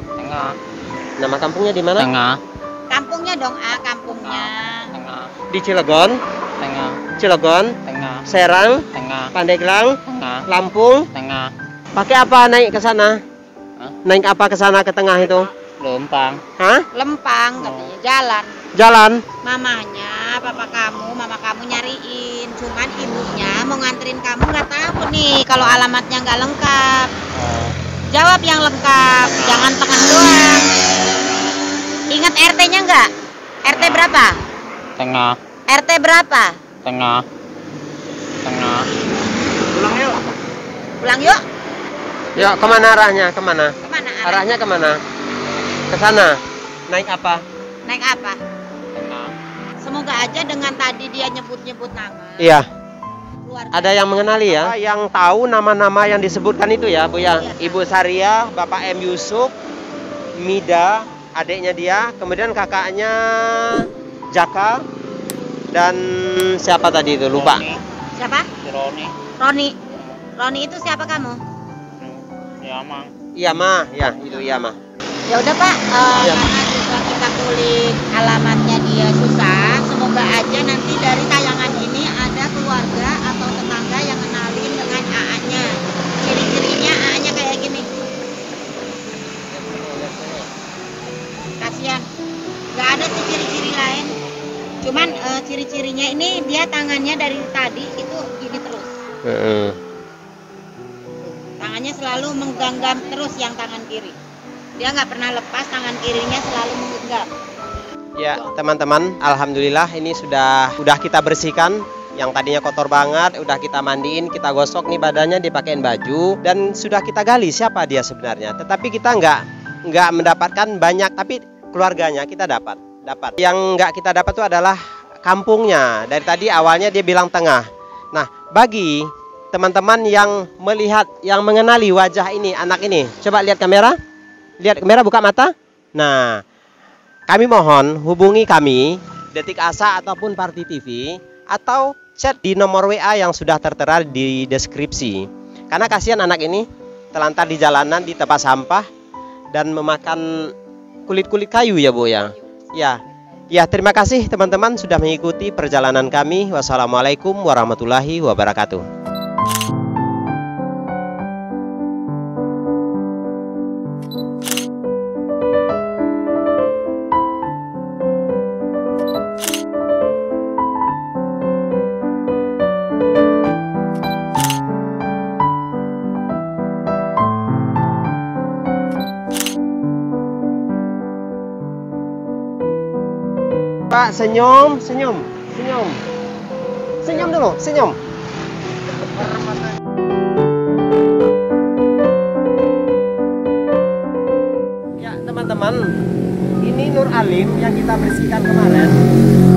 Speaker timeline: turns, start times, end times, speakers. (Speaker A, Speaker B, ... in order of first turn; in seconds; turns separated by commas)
Speaker A: 0.2-0.6, Speaker B: 1.2-2.1, Speaker A: 2.0-2.4, Speaker C: 2.9-4.9, Speaker A: 4.2-5.3, Speaker B: 5.5-6.2, Speaker A: 6.6-7.0, Speaker B: 7.2-11.1, Speaker A: 7.9-8.3, Speaker A: 8.9-9.3, Speaker A: 10.1-10.5, Speaker A: 11.1-11.5, Speaker B: 11.9-13.2, Speaker B: 14.1-15.5, Speaker A: 15.7-16.4, Speaker B: 16.6-16.9, Speaker C: 16.9-18.6, Speaker A: 17.6-17.9, Speaker B: 18.8-19.2, Speaker C: 19.4-27.1, Speaker A: 25.5-25.8, Speaker A: 27.3-27.8, Speaker C: 28.1-30.7, Speaker A: 29.2-29.7, Speaker C: 32.1-33.1, Speaker C: 33.6-34.4, Speaker A: 33.7-34.1, Speaker A: 35.0-35.4, Speaker C: 35.7-36.6, Speaker A: 36.8-37.2, Speaker A: 38.4-38.9, Speaker B: 39.7-40.2, Speaker C: 41.0-41.4, Speaker B: 42.4-45.0, Speaker C: 42.4-42.9, Speaker C: 43.8-44.5, Speaker B: 45.9-47.4, Speaker C: 47.9-48.4, Speaker A: 48.9-49.3, Speaker C: 49.8-52.6, Speaker B: 52.4-52.7, Speaker C: 53.5-54.8, Speaker B: 53.7-59.5, Speaker C: 57.4-57.8, Speaker B: 60.4-64.8, Speaker B: 65.7-67.7, Speaker A: 67.3-67.8, Speaker C: 68.2-68.5, Speaker A: 68.6-69.2, Speaker C: 69.4-69.8, Speaker A: 69.9-70.2, Speaker C: 70.4-71.4, Speaker A: 72.0-73.1, Speaker B: 73.4-74.8, Speaker C: 75.3-87.9, Speaker B: 76.1-76.5, Speaker B: 89.5-90.5, Speaker C: 91.6-92.1, Speaker C: 92.8-94.1, Speaker C: 94.8-98.9, Speaker B: 99.2-99.8, Speaker C: 101.6-104.2, Speaker C: 104.8-107.3, Speaker B: 108.2-134.0, Speaker B: 134.6-136.4, Speaker B: 137.3-148.9, Speaker B: 149.5-150.5, Speaker B: 151.1-153.0, Speaker B: 153.5-158.9, Speaker B: 183.9-186.0, Speaker B: 187.0-188.0, Speaker B: 189.0-189.7, Speaker B: 195.0-195.9, Speaker B: 196.6-199.0